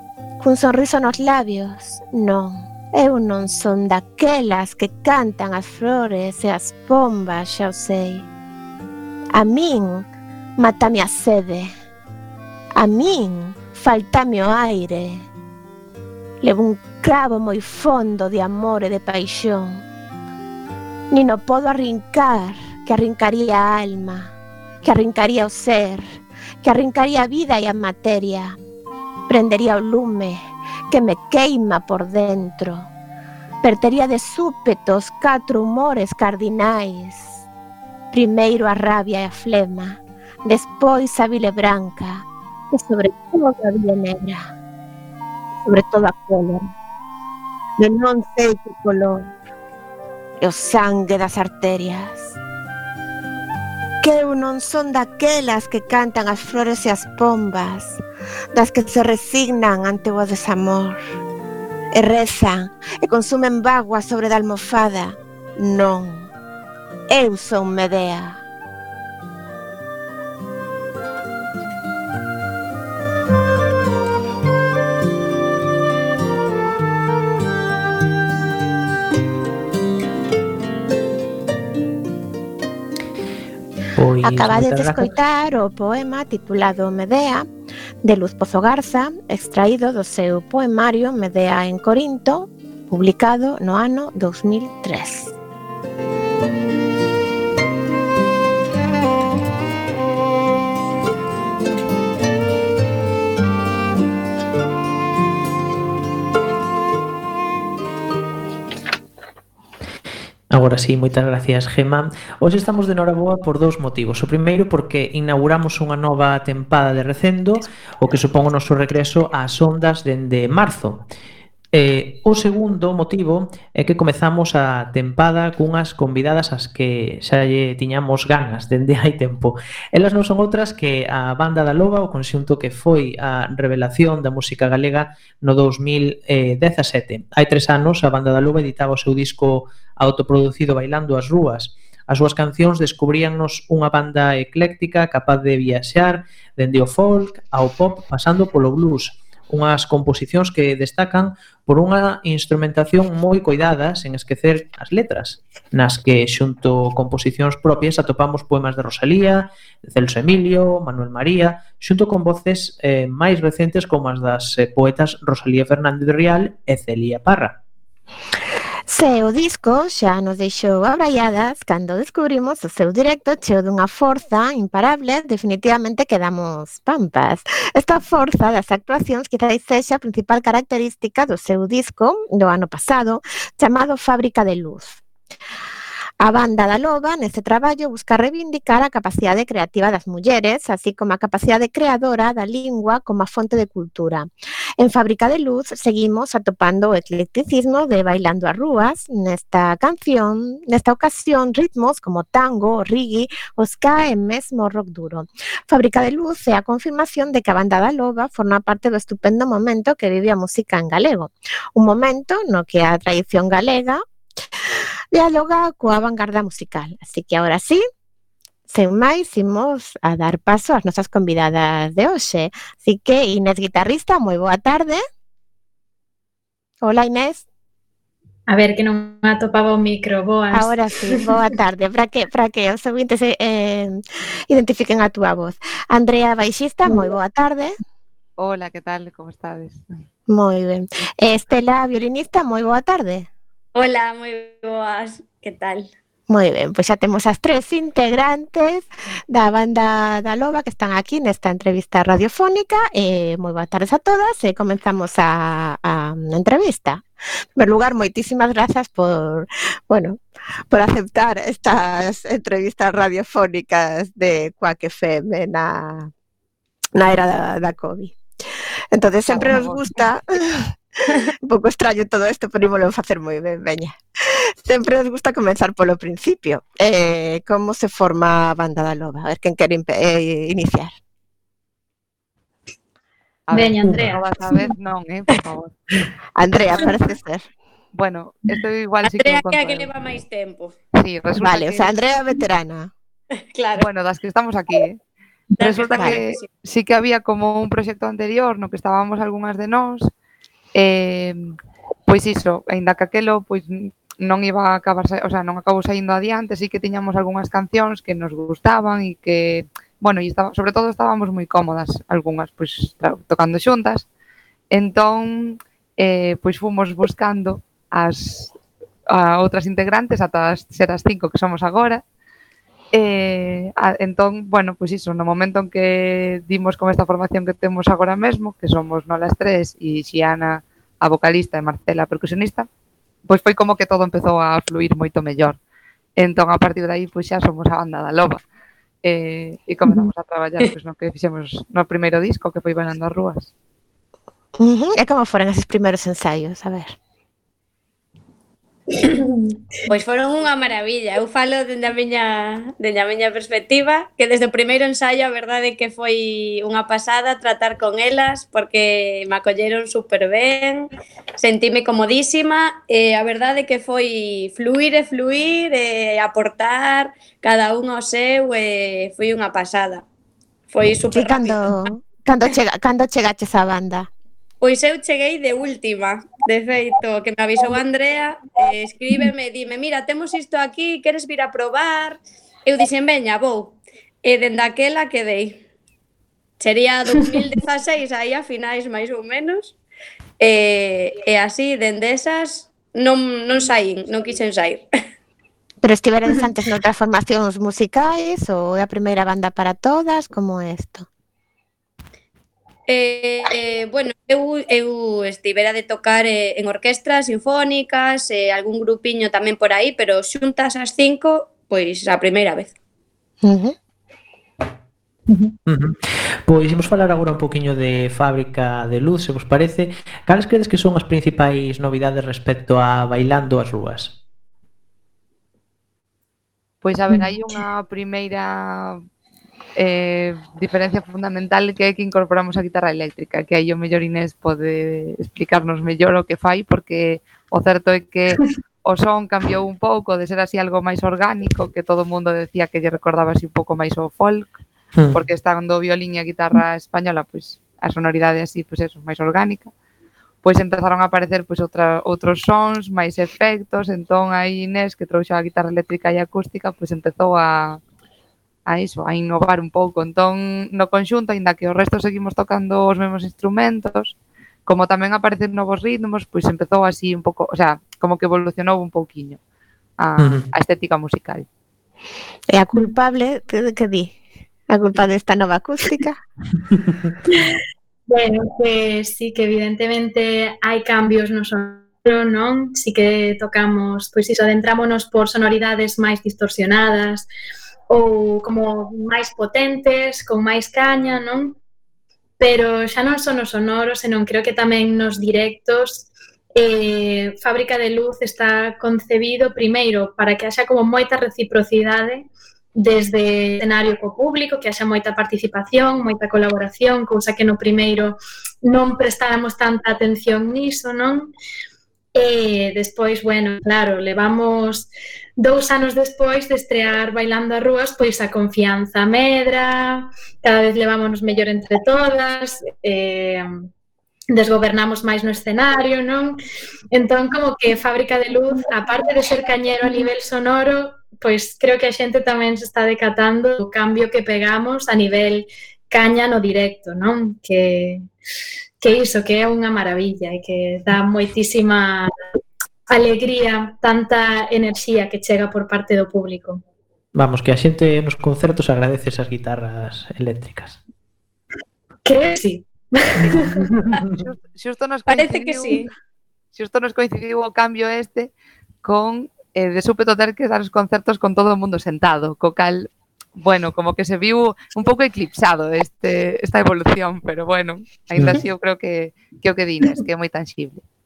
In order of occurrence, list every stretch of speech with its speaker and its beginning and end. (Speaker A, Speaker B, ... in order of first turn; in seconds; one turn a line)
Speaker A: 0.4-8.3
Speaker A: 9.3-11.7
Speaker A: 12.7-15.2
Speaker A: 16.4-19.8
Speaker A: 21.1-28.6
Speaker A: 29.3-32.9
Speaker A: 33.6-37.4
Speaker A: 38.1-44.5
Speaker A: 45.6-46.7
Speaker A: 47.8-49.3
Speaker A: 50.4-52.4
Speaker A: 54.0-58.0
Speaker A: 58.5-61.0
Speaker A: 61.9-66.3
Speaker A: 67.1-68.4
Speaker B: 84.0-85.1
Speaker A: 84.2-87.5
Speaker A: 88.0-95.3
Speaker B: 110.5-121.0
Speaker B: 121.7-167.6
Speaker A: 168.9-185.0
Speaker A: 186.2-214.0
Speaker A: 214.7-217.8
Speaker A: 218.7-225.0
Speaker A: 226.8-227.4
Speaker C: 228.5-230.7
Speaker A: 230.5-237.7
Speaker D: 238.4-239.8
Speaker A: 240.3-243.3
Speaker E: 243.7-245.9
Speaker A: 246.3-257.0
Speaker A: 257.6-260.2
Speaker A: 260.7-266.1
Speaker A: 266.9-268.2
Speaker A: 268.9-270.7
Speaker D: 269.3-269.9
Speaker A: 271.4-280.9
Speaker D: 283.5-285.8
Speaker C: 283.5-284.2
Speaker A: 286.4-287.5
Speaker D: 287.9-289.9
Speaker E: 289.0-290.8
Speaker D: 290.9-291.9
Speaker A: 291.4-292.9
Speaker E: 293.5-293.9
Speaker D: 293.8-295.0
Speaker E: 295.6-296.5
Speaker D: 295.6-300.1
Speaker D: 300.7-301.5
Speaker D: 302.1-314.1
Speaker D: 314.7-318.5
Speaker D: 319.1-322.0
Speaker D: 322.9-332.7
Speaker D: 333.3-335.6
Speaker D: 336.2-338.4
Speaker D: 339.0-343.5
Speaker A: 344.6-346.9
Speaker C: 349.1-349.5
Speaker E: 349.9-370.0
Speaker E: 370.7-371.6
Speaker A: 371.1-374.1
Speaker E: 374.6-385.6
Speaker E: 386.6-389.8
Speaker E: 390.4-394.9
Speaker A: 395.8-401.1
Speaker E: 402.9-412.7
Speaker A: 413.4-413.8
Speaker C: 415.3-415.5
Speaker B: 415.7-424.1
Speaker D: 426.8-429.0
Speaker D: 429.8-444.6
Speaker D: 445.1-449.7
Speaker D: 450.4-457.8
Speaker D: 458.7-469.4
Speaker D: 470.0-471.4
Speaker B: 470.2-470.5
Speaker A: 472.5-474.2
Speaker A: 474.7-476.2
Speaker C: 477.3-487.3
Speaker C: 487.9-491.6
Speaker C: 492.4-511.3
Speaker C: 512.1-523.6
Speaker C: 524.3-526.4
Speaker C: 526.9-538.0
Speaker C: 538.8-542.1
Speaker C: 542.9-546.6
Speaker B: 547.1-550.8
Speaker C: 552.0-553.7
Speaker B: 553.2-554.1
Speaker D: 554.1-555.9
Speaker E: 555.0-555.9
Speaker D: 556.5-558.3
Speaker D: 558.8-570.8